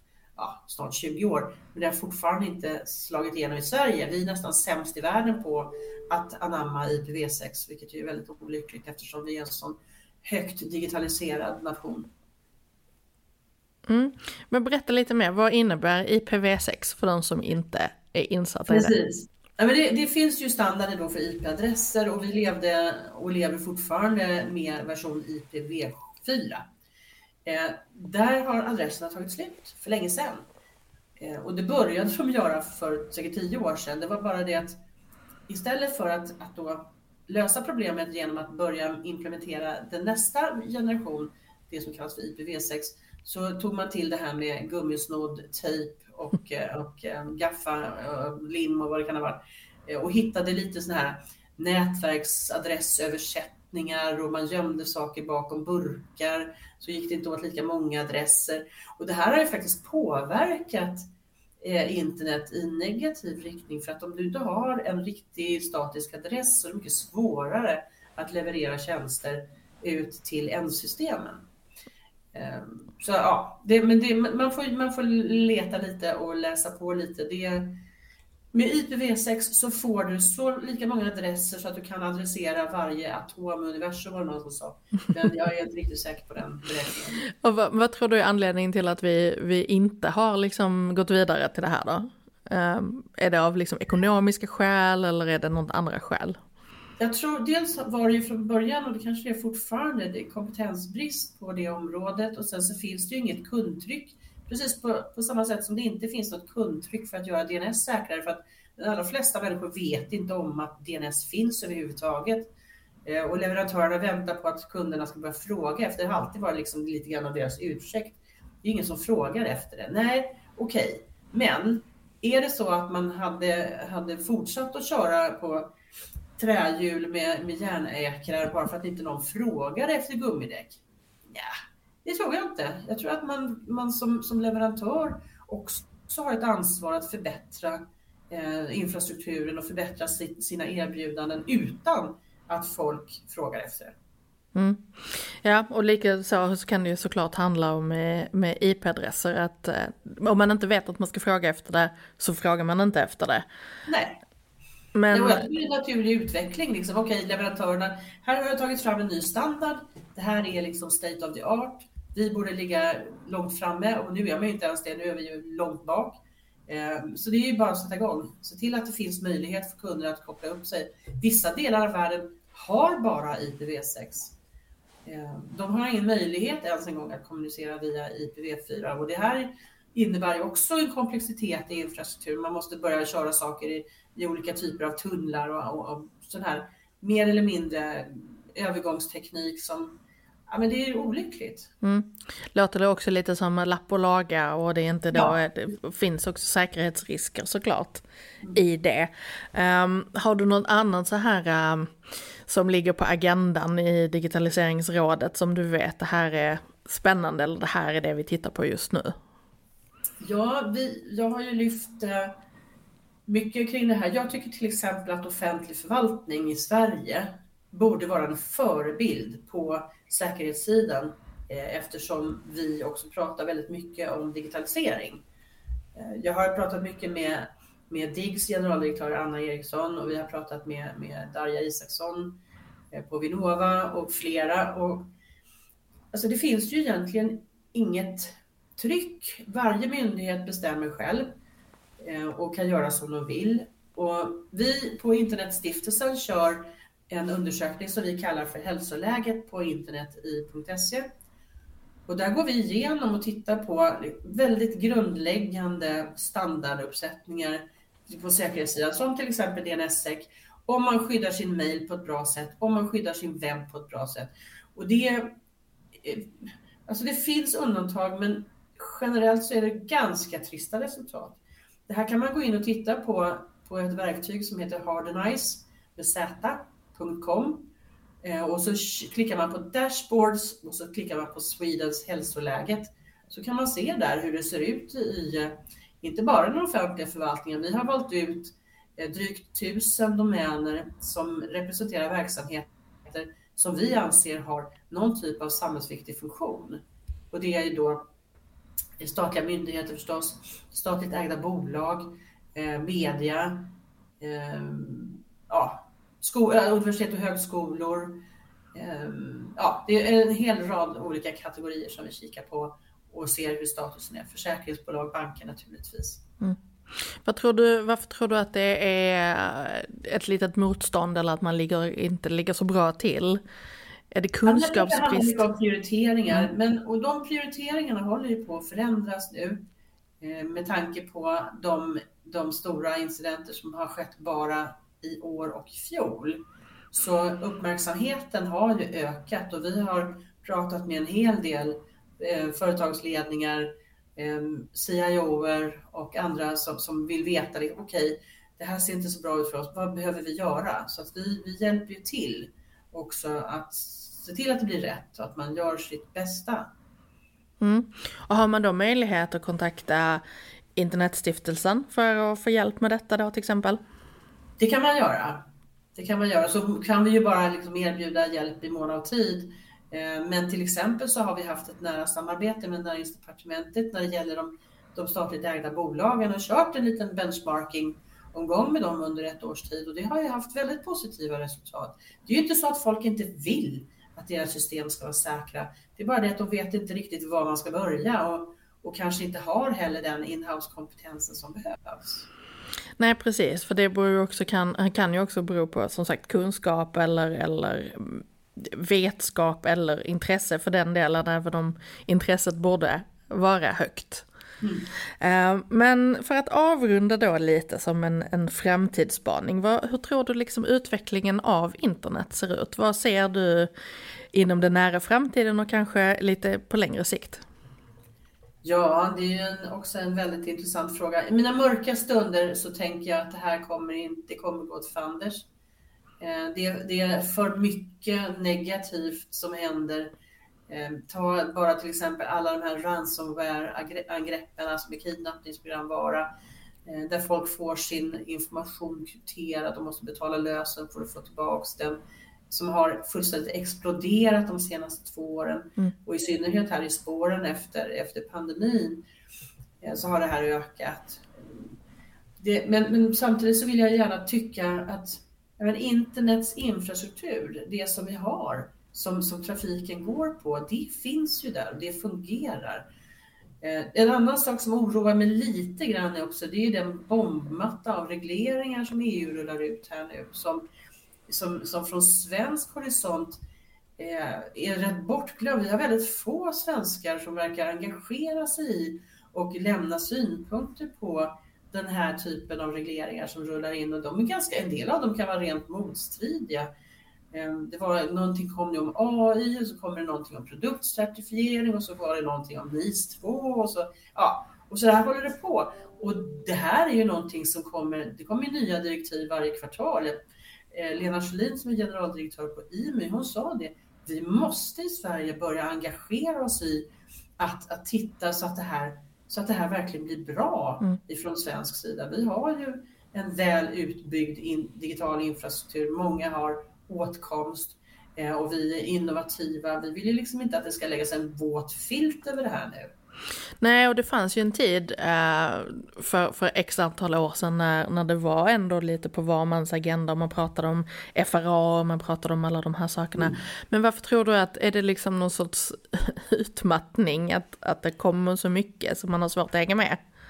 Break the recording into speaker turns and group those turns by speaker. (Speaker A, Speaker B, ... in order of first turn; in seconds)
Speaker A: 0.4-12.1, 18.7-26.7, 27.4-30.5, 31.2-34.8, 35.5-61.0, 61.6-71.5, 72.3-77.8, 78.5-87.3, 97.0-112.5, 113.1-125.7, 126.4-143.9, 153.9-154.2, 155.1-174.3, 175.1-190.0, 190.5-191.7, 210.2-212.3, 213.3-225.2, 225.9-232.4, 232.9-235.1, 236.1-241.4, 242.0-251.1, 252.1-265.4, 266.0-277.7, 278.2-298.0, 299.0-308.2, 308.7-316.2, 324.5-329.6, 330.2-356.7, 364.6-392.3, 404.6-404.9, 418.6-425.5, 426.2-430.1, 430.7-436.3, 436.9-442.0, 442.5-449.0, 449.8-451.8, 452.4-462.9, 463.6-470.7, 471.3-473.4, 474.0-486.7, 487.3-500.2, 500.7-506.9, 507.4-522.9
Speaker B: 13.9-18.9, 87.4-96.4, 144.6-153.4, 154.9-155.5, 191.8-209.2, 316.4-323.4, 324.1-325.5, 357.6-360.2, 360.8-363.8, 393.0-404.3, 405.2-413.7, 414.3-417.4, 523.6-540.0